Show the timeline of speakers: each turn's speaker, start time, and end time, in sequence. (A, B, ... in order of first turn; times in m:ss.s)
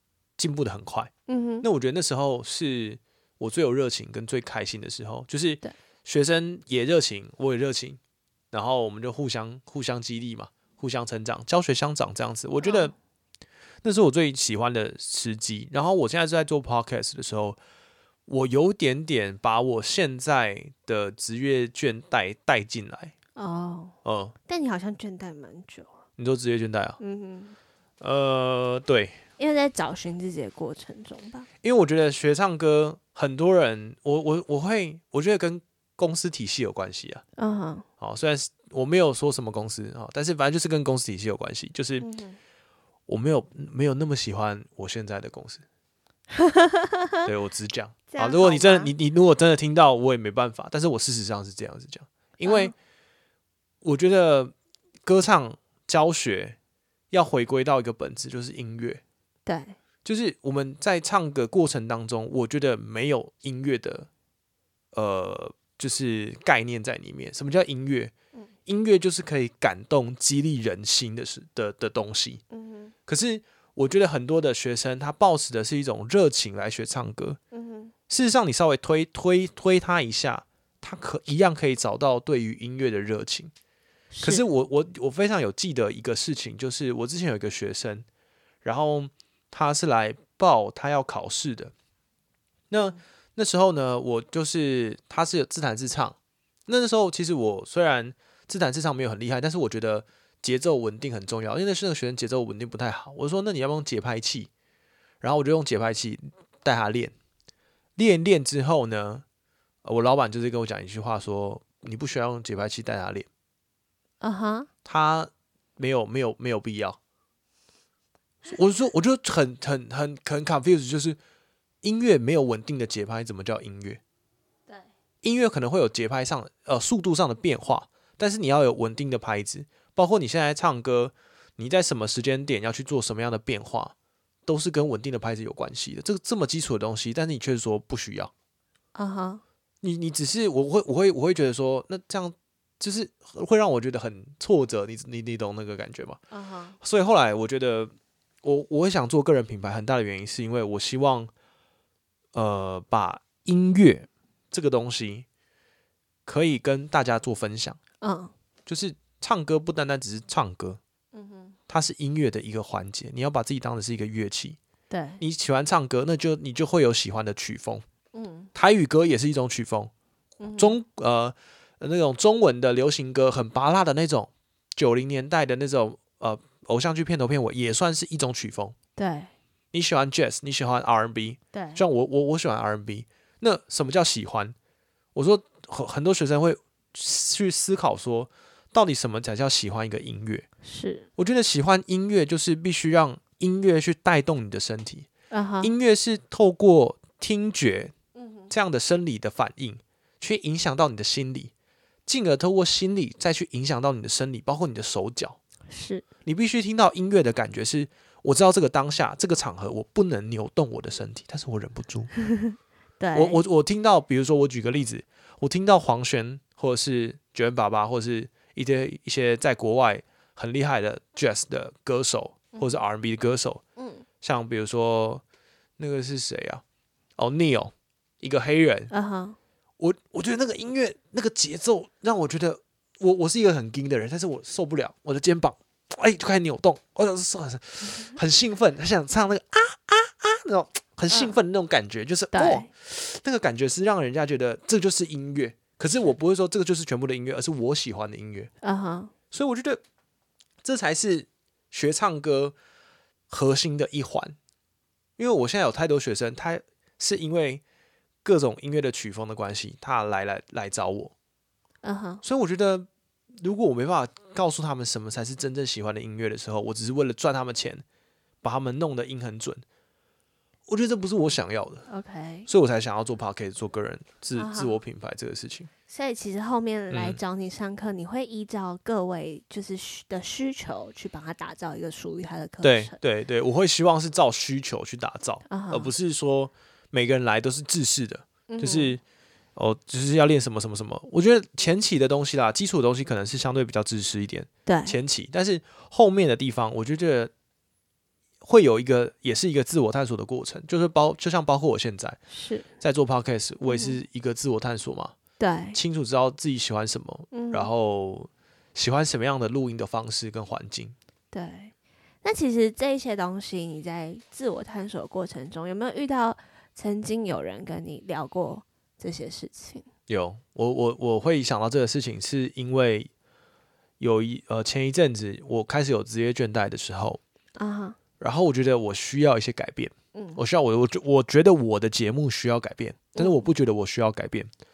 0:00.4-0:01.1 A
0:01.3-0:01.6 B
0:01.6-0:08.0 A
0:08.5-0:12.9 A
0:12.6-0:12.9 B
0:13.8-0:17.6 A
0:18.3-0:23.1 A
0:23.4-0:24.0 B
0:24.0-0:24.3 A
0:24.5-0:26.0 B
0:26.2-0:27.0 A
0:27.0-0:27.6 B
0:28.0-0:29.2 A
0:29.4-0:31.5 B
0:31.6-0:37.2 A
0:37.4-0:37.8 B
0:38.0-0:42.1 A
0:42.0-0:42.4 B
0:43.1-0:45.6 A
0:46.3-0:47.3 B
0:47.2-0:52.7 A
0:48.1-0:48.9 B
0:52.4-0:52.7 B
0:53.8-0:54.5 A
0:55.0-0:56.6 A
0:57.1-0:59.0 A
0:59.4-0:59.8 B
1:00.0-1:04.1 A
1:04.9-1:08.1 A
1:08.6-1:12.4 A
1:12.5-1:12.9 B
1:13.1-1:17.4 A
1:17.5-1:17.9 B
1:18.1-1:23.5 A
1:24.1-1:24.4 B
1:24.2-1:28.0 A
1:28.6-1:31.7 A
1:32.7-1:36.2 A
1:36.7-1:44.5 A
1:45.2-1:47.1 A
1:48.0-1:49.2 A
1:49.8-1:53.3 A
1:54.2-1:54.7 B
1:54.8-1:57.0 A
1:58.4-2:01.2 A
2:01.8-2:04.0 A
2:05.2-2:13.9 A
2:14.4-2:18.3 A
2:18.9-2:19.4 B
2:19.8-2:26.2 A
2:26.3-2:26.8 B
2:26.8-2:31.3 A
2:32.3-2:35.2 A
2:36.2-2:37.8 A
2:38.0-2:38.3 B
2:38.6-2:40.8 A
2:41.1-2:41.6 B
2:41.7-2:44.6 A
2:44.9-2:45.2 B
2:45.2-2:47.8 A
2:48.1-2:48.5 B
2:48.5-2:49.9 A
2:50.4-2:50.8 B
2:50.6-2:58.7 A
2:59.0-2:59.3 B
2:59.7-3:04.5 A
3:01.5-3:01.8 B
3:05.1-3:10.5 A
3:10.6-3:11.1 B
3:11.2-3:15.1 A
3:15.3-3:15.7 B
3:15.6-3:17.9 A
3:18.1-3:18.5 B
3:18.5-3:21.5 A
3:22.0-3:25.4 A
3:25.7-3:26.0 B
3:26.2-3:32.1 A
3:32.2-3:33.4 B
3:33.1-3:43.6 A
3:43.8-3:44.0 B
3:44.2-3:45.2 A
3:45.8-3:46.6 A
3:47.2-3:48.9 A
3:48.9-3:49.4 B
3:49.8-4:08.5 A
4:01.1-4:01.4 B
4:02.3-4:02.7 B
4:08.6-4:09.1 B
4:09.3-4:09.8 A
4:10.6-4:12.5 A
4:13.3-4:14.4 A
4:15.2-4:17.6 A
4:18.2-4:21.1 A
4:21.8-4:22.2 B
4:22.2-4:22.9 A
4:23.4-4:27.8 A
4:28.4-4:29.6 A
4:30.7-4:31.8 A
4:31.9-4:32.5 B
4:32.5-4:35.7 A
4:34.4-4:34.8 B
4:35.9-4:43.0 B
4:36.9-4:37.2 A
4:42.6-4:49.0 A
4:45.5-4:45.9 B
4:48.5-4:48.9 B
4:49.6-4:57.3 A
4:54.6-4:55.0 B
4:58.4-5:02.2 A
5:02.3-5:02.7 B
5:02.8-5:05.1 A
5:03.6-5:04.0 B
5:05.4-5:05.8 B
5:05.7-5:10.9 A
5:07.3-5:07.7 B
5:11.3-5:19.8 B
5:20.1-5:23.1 A
5:24.0-5:27.2 A
5:27.6-5:28.0 B
5:28.2-5:34.5 A
5:30.1-5:30.4 B
5:33.2-5:33.5 B